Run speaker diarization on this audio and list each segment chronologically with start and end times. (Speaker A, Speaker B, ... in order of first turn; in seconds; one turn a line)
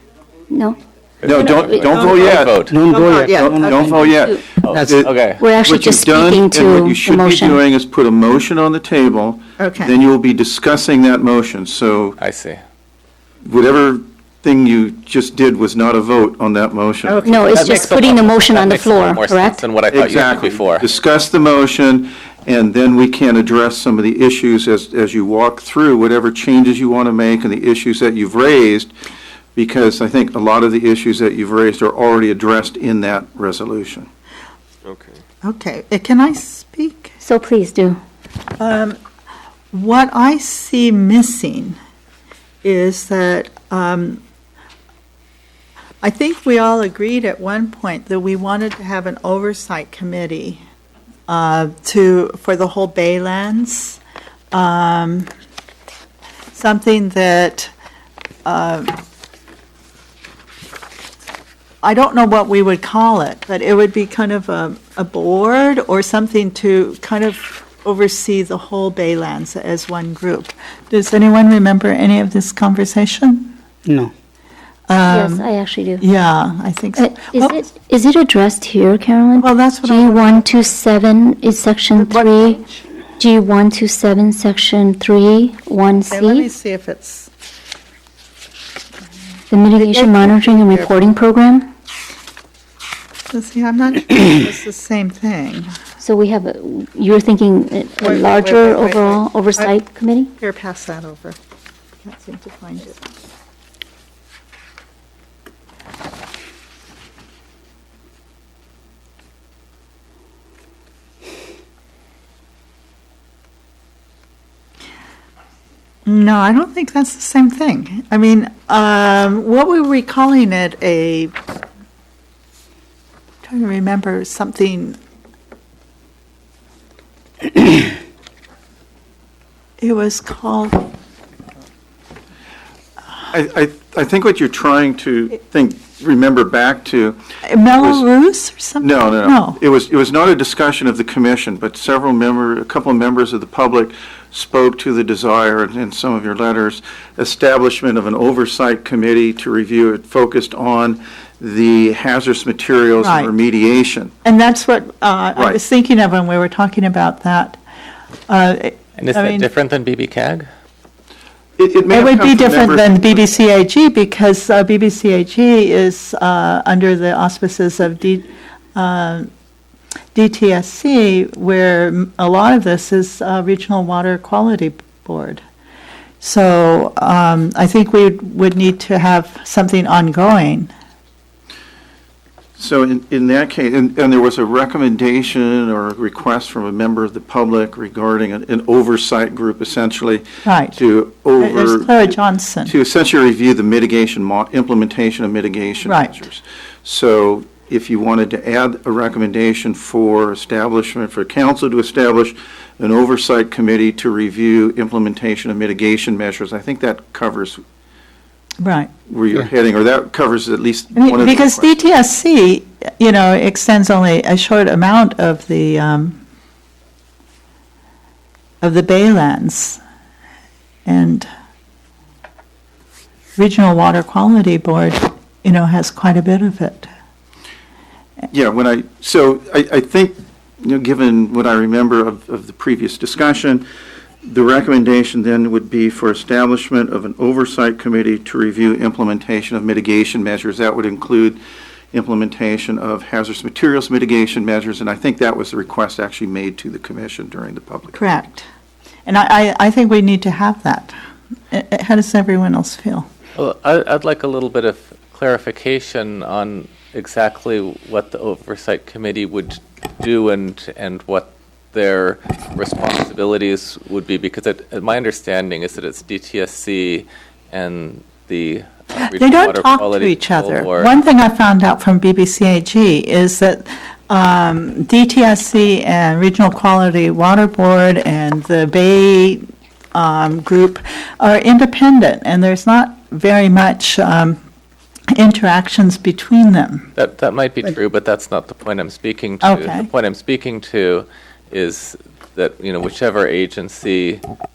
Speaker A: 0.5-2.4
Speaker B: 1.2-2.8
Speaker C: 1.2-2.7
Speaker D: 2.6-5.1
Speaker E: 2.9-4.0
Speaker C: 3.2-12.2
Speaker B: 4.6-5.5
Speaker A: 5.4-7.6
Speaker E: 9.6-9.9
Speaker B: 12.2-12.6
Speaker C: 13.4-17.4
Speaker E: 17.0-17.9
Speaker A: 17.3-19.6
Speaker B: 17.5-20.8
Speaker C: 19.9-28.9
Speaker C: 29.5-34.1
Speaker E: 35.4-37.1
Speaker A: 37.2-38.0
Speaker E: 38.6-39.0
Speaker E: 39.7-41.8
Speaker E: 42.6-44.2
Speaker E: 46.0-50.6
Speaker E: 51.3-54.0
Speaker E: 54.5-55.3
Speaker E: 56.5-57.7
Speaker E: 58.4-59.0
Speaker E: 61.8-73.5
Speaker D: 73.8-74.1
Speaker E: 74.9-75.5
Speaker A: 75.0-76.0
Speaker E: 76.0-77.6
Speaker A: 77.0-82.6
Speaker E: 79.4-80.8
Speaker E: 82.0-82.8
Speaker A: 83.2-86.5
Speaker E: 86.1-87.3
Speaker A: 89.5-91.7
Speaker E: 89.8-90.9
Speaker E: 93.3-95.7
Speaker A: 96.0-100.3
Speaker E: 98.0-99.8
Speaker E: 100.4-101.4
Speaker E: 102.0-103.0
Speaker E: 116.0-121.3
Speaker E: 123.4-125.0
Speaker E: 129.8-130.9
Speaker C: 133.3-137.2
Speaker E: 137.4-139.6
Speaker C: 137.8-138.0
Speaker C: 138.8-154.1
Speaker E: 153.0-153.3
Speaker E: 154.2-157.6
Speaker E: 158.3-159.5
Speaker B: 159.0-160.5
Speaker C: 161.6-163.1
Speaker E: 161.9-169.3
Speaker E: 170.1-175.4
Speaker E: 176.2-180.7
Speaker C: 182.6-207.6
Speaker E: 190.4-190.8
Speaker E: 191.4-192.7
Speaker E: 195.8-196.1
Speaker E: 208.6-208.9
Speaker C: 209.1-211.7
Speaker E: 210.9-216.2
Speaker E: 218.6-219.8
Speaker E: 220.8-221.3
Speaker E: 223.4-226.9
Speaker C: 228.3-233.7
Speaker C: 234.2-241.4
Speaker C: 241.9-248.0
Speaker E: 247.9-248.4
Speaker E: 249.1-250.9
Speaker E: 251.5-253.1
Speaker B: 253.3-270.9
Speaker E: 269.0-279.4
Speaker E: 279.9-284.4
Speaker E: 285.1-286.9
Speaker B: 286.9-294.2
Speaker E: 289.4-289.9